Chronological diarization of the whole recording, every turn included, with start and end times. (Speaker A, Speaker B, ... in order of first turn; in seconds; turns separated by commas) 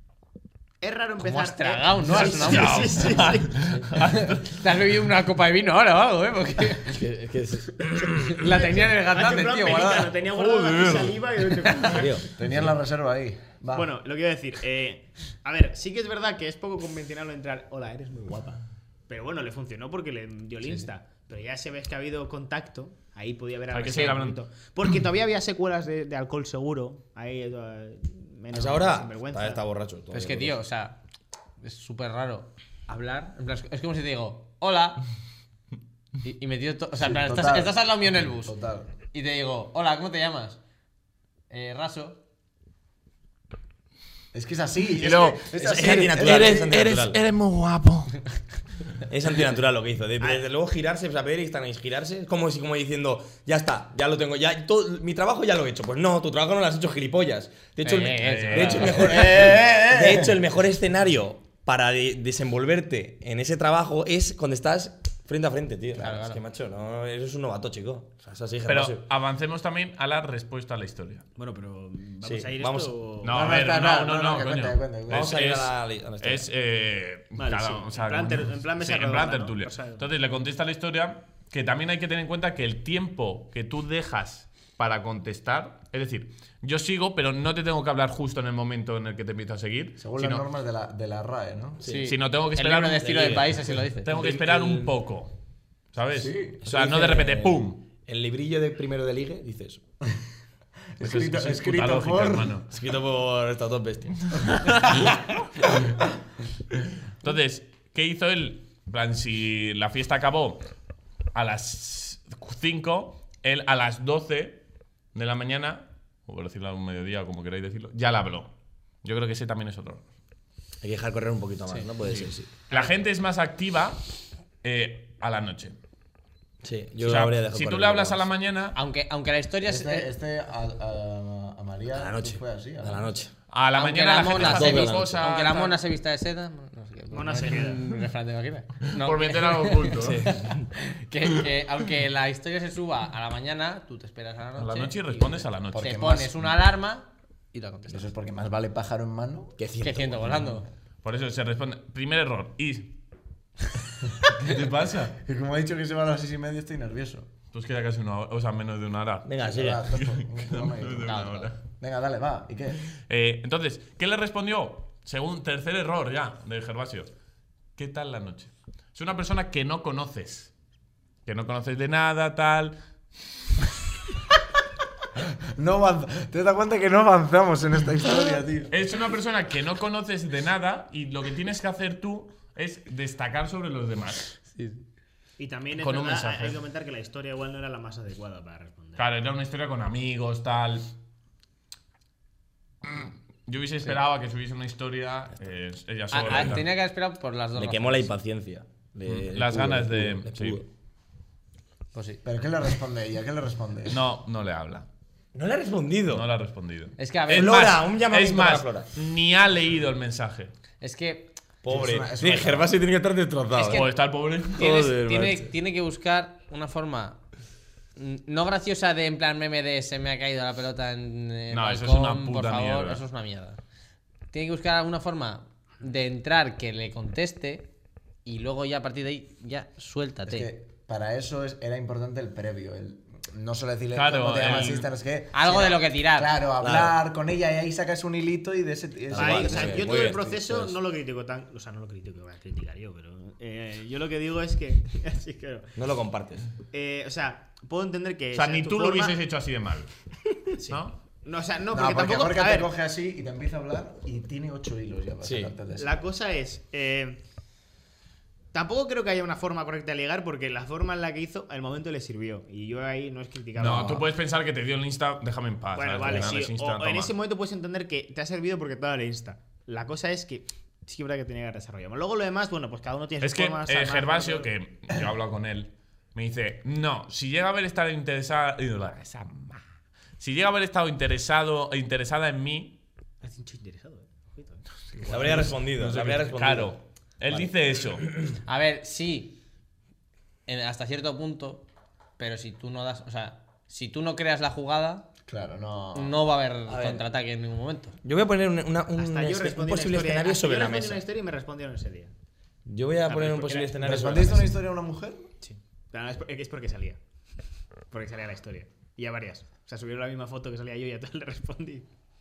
Speaker A: 0.8-3.6, Speaker B: 1.2-3.2, Speaker C: 2.0-4.5, Speaker B: 4.0-7.0, Speaker D: 6.9-8.4, Speaker B: 8.2-10.1, Speaker A: 8.4-12.2, Speaker C: 10.2-11.9, Speaker D: 11.8-12.2, Speaker E: 12.3-13.9, Speaker A: 13.7-29.6, Speaker C: 23.7-24.4, Speaker D: 28.5-30.6, Speaker B: 30.1-31.0, Speaker B: 31.6-35.0, Speaker B: 36.2-38.5, Speaker E: 37.0-38.9, Speaker B: 39.1-40.6, Speaker B: 41.5-42.2, Speaker E: 44.3-46.8, Speaker C: 45.0-48.2, Speaker D: 45.5-47.2, Speaker D: 49.1-69.0, Speaker A: 50.2-50.4, Speaker B: 57.8-59.3, Speaker C: 58.2-59.1, Speaker E: 58.9-60.4, Speaker B: 65.9-66.4, Speaker C: 68.7-71.2, Speaker A: 71.3-73.5, Speaker D: 72.2-73.0, Speaker C: 73.2-90.4, Speaker E: 73.2-75.4, Speaker D: 75.1-76.5, Speaker A: 77.4-80.1, Speaker E: 90.0-91.8, Speaker D: 91.8-92.1, Speaker B: 91.8-94.1, Speaker C: 92.0-95.3, Speaker D: 93.6-94.9, Speaker C: 95.9-97.8, Speaker E: 96.1-96.6, Speaker D: 96.6-99.8, Speaker E: 101.0-102.6, Speaker C: 101.0-102.7, Speaker D: 102.7-105.2, Speaker C: 104.5-105.0, Speaker C: 107.2-110.6, Speaker C: 111.3-114.6, Speaker C: 115.1-118.5, Speaker C: 119.0-120.0, Speaker D: 120.8-122.5, Speaker C: 122.0-124.0, Speaker C: 124.6-125.7, Speaker D: 126.6-128.3, Speaker C: 127.0-128.8, Speaker B: 128.7-130.1, Speaker E: 129.6-133.2, Speaker D: 131.9-133.3, Speaker C: 133.5-135.8, Speaker B: 133.7-148.1, Speaker D: 134.3-135.3, Speaker A: 137.1-137.9, Speaker C: 138.9-140.2, Speaker D: 140.0-140.7, Speaker C: 144.6-146.0, Speaker E: 145.7-146.5, Speaker E: 147.9-149.6, Speaker D: 149.6-150.6, Speaker B: 149.8-150.7, Speaker C: 151.0-152.9, Speaker C: 154.2-155.2, Speaker E: 155.2-157.3, Speaker C: 157.5-159.3, Speaker D: 159.2-159.8, Speaker E: 159.4-161.2, Speaker C: 159.9-161.6, Speaker B: 161.0-161.5, Speaker E: 161.8-162.8, Speaker C: 162.9-167.1, Speaker C: 167.8-170.5, Speaker C: 171.2-172.7, Speaker E: 175.5-178.8, Speaker C: 178.7-184.3, Speaker B: 184.5-184.8, Speaker A: 185.4-189.1, Speaker C: 185.8-186.6, Speaker C: 189.0-190.9, Speaker C: 192.8-196.7, Speaker B: 196.1-198.1, Speaker D: 197.6-200.7, Speaker C: 199.1-200.6, Speaker B: 201.9-202.2, Speaker E: 202.2-204.0, Speaker C: 203.9-204.9, Speaker D: 205.3-206.2, Speaker C: 206.1-210.5, Speaker B: 207.0-207.6, Speaker D: 207.3-208.9, Speaker B: 210.8-211.3, Speaker D: 211.6-213.8, Speaker E: 211.7-212.8, Speaker B: 213.6-213.9, Speaker C: 213.6-214.8, Speaker D: 214.5-215.5, Speaker B: 214.6-217.2, Speaker B: 217.9-223.6, Speaker C: 221.5-223.0, Speaker B: 224.3-227.7, Speaker B: 228.2-230.5, Speaker E: 230.2-240.4, Speaker C: 233.9-234.9, Speaker B: 235.3-236.3, Speaker D: 236.6-236.9, Speaker D: 239.1-240.8, Speaker A: 239.1-245.7, Speaker D: 245.8-246.5, Speaker A: 246.7-249.1, Speaker C: 248.3-249.9, Speaker A: 250.6-252.7, Speaker C: 250.7-251.0, Speaker E: 251.7-255.9, Speaker D: 255.2-255.6, Speaker A: 255.7-257.2, Speaker A: 258.5-264.0, Speaker C: 263.6-267.1, Speaker D: 263.7-264.0, Speaker A: 265.7-274.5, Speaker C: 273.2-279.6, Speaker C: 280.2-282.8, Speaker A: 283.2-284.6, Speaker C: 284.9-288.1, Speaker D: 285.0-286.8, Speaker D: 287.3-288.3, Speaker B: 288.4-289.4, Speaker B: 290.5-291.6, Speaker B: 292.2-295.1, Speaker E: 295.3-296.2, Speaker B: 295.9-298.0, Speaker D: 296.7-297.0, Speaker D: 298.0-301.0, Speaker A: 299.0-302.1, Speaker D: 302.6-304.6, Speaker A: 303.1-304.1, Speaker E: 303.8-305.3, Speaker A: 305.4-307.0, Speaker A: 307.9-311.9